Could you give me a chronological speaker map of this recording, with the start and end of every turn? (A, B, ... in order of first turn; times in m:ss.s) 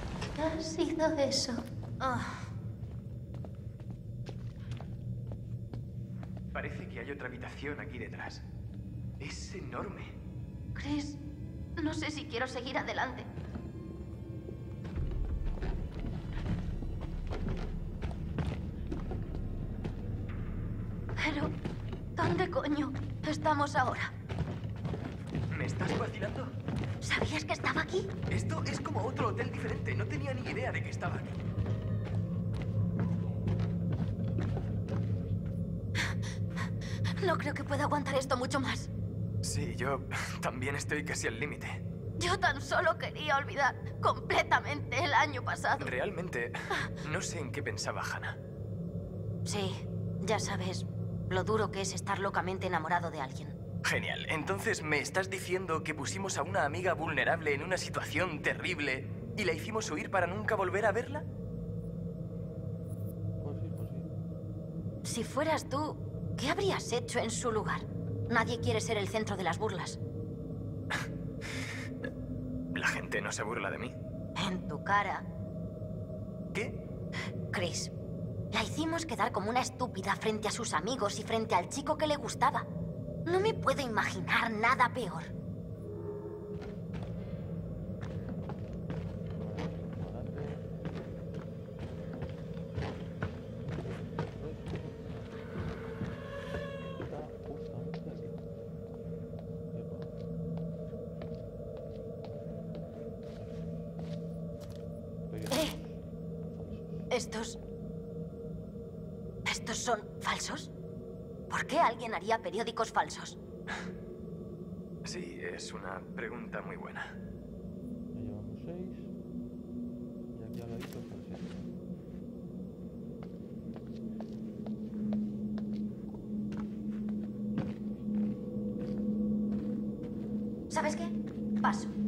0:00.4-0:02.4 A
0:06.5-0:08.4 B
0:09.2-0:10.2 B
0:10.8-0:11.2 A
0:11.8-0:13.3 A
0:21.2-0:21.5 A
0:22.2-0:24.1 A
0:25.5-0:26.5 B
0:27.0-0:28.1 A
0:28.3-0:31.4 B
0:37.2-0:38.9 A
0:39.4-0:41.8 B
0:42.2-0:45.9 A
0:45.8-0:48.4 B
0:49.5-0:53.6 A
0:53.8-1:01.3 B
1:03.4-1:04.1 C
1:05.0-1:10.0 A
1:12.7-1:14.0 B
1:14.4-1:15.3 A
1:16.5-1:16.8 B
1:17.5-1:17.9 A
1:18.5-1:22.7 A
1:23.3-1:25.3 A
1:29.3-1:30.7 C
1:33.6-1:35.3 C
1:37.0-1:38.4 C
1:39.7-1:40.2 C
1:45.3-1:47.1 C
1:47.1-1:47.6 A
1:49.4-1:50.7 A
1:51.5-1:53.4 A
1:55.0-1:57.2 B
1:58.1-1:59.1 C
2:00.3-2:01.7 C
2:10.7-2:11.9 A